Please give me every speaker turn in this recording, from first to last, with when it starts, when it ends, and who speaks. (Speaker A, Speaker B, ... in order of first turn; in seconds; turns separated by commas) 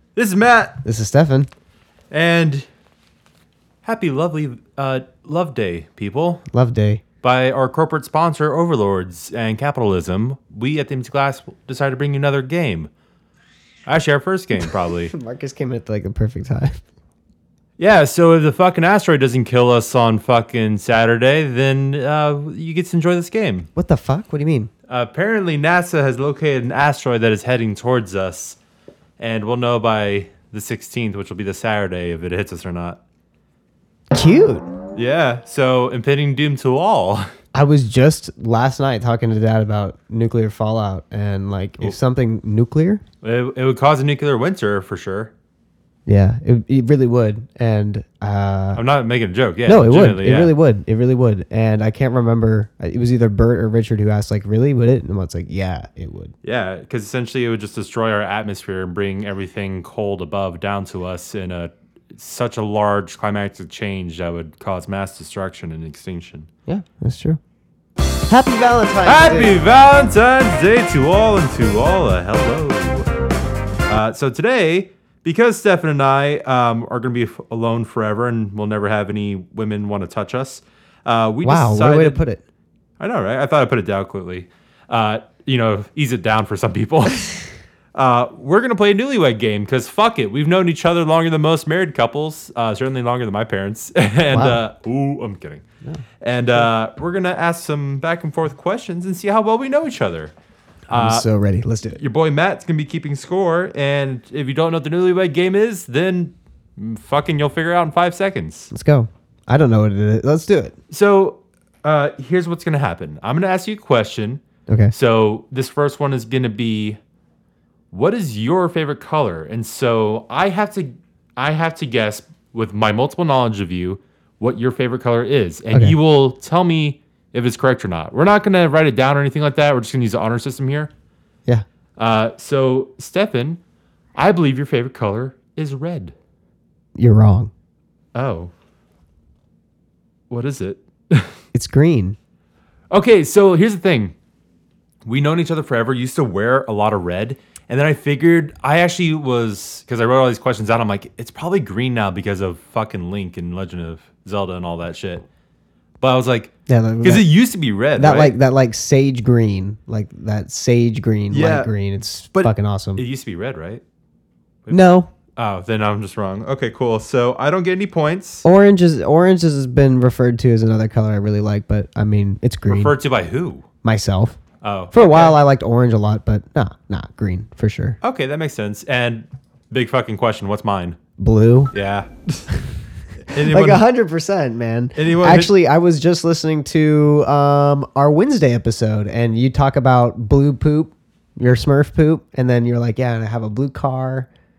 Speaker A: 0.1-0.8, Speaker B: 0.8-1.5, Speaker A: 2.1-2.7, Speaker A: 3.8-6.4, Speaker B: 6.5-7.0, Speaker A: 7.2-12.9, Speaker A: 13.9-15.1, Speaker B: 14.6-16.8, Speaker A: 17.8-23.7, Speaker B: 23.8-24.7, Speaker A: 24.9-28.6, Speaker A: 29.2-33.0, Speaker B: 34.1-34.6, Speaker A: 35.0-37.3, Speaker B: 37.5-43.0, Speaker A: 43.2-45.3, Speaker B: 46.1-48.8, Speaker A: 48.7-50.5, Speaker B: 49.6-56.3, Speaker A: 56.4-66.5, Speaker B: 66.7-67.4, Speaker B: 68.3-69.6, Speaker A: 69.0-73.1, Speaker A: 73.9-82.2, Speaker B: 81.4-82.4, Speaker A: 83.0-95.6, Speaker B: 94.3-94.6, Speaker A: 96.2-100.3, Speaker B: 100.9-102.0, Speaker A: 100.9-101.3, Speaker A: 102.0-108.7, Speaker B: 108.7-110.7, Speaker A: 110.9-114.4, Speaker B: 114.7-114.9, Speaker A: 114.9-117.0, Speaker A: 117.9-130.9, Speaker B: 125.7-126.0, Speaker A: 132.0-133.6, Speaker A: 134.2-136.1, Speaker B: 137.0-137.5, Speaker A: 138.2-138.5, Speaker A: 140.3-141.4, Speaker B: 141.5-142.2, Speaker A: 142.9-144.2, Speaker A: 145.1-155.2, Speaker A: 156.0-158.3, Speaker B: 156.7-157.3, Speaker B: 157.9-163.0, Speaker A: 161.3-161.7, Speaker A: 162.3-163.8, Speaker A: 164.7-168.4, Speaker B: 164.7-165.1, Speaker B: 168.4-172.9, Speaker A: 172.7-173.7, Speaker B: 173.8-174.4, Speaker A: 174.6-175.4, Speaker B: 174.9-178.0, Speaker A: 178.0-181.0, Speaker B: 181.2-181.7, Speaker A: 181.7-182.5, Speaker A: 183.3-183.9, Speaker B: 183.3-194.3, Speaker A: 185.0-185.5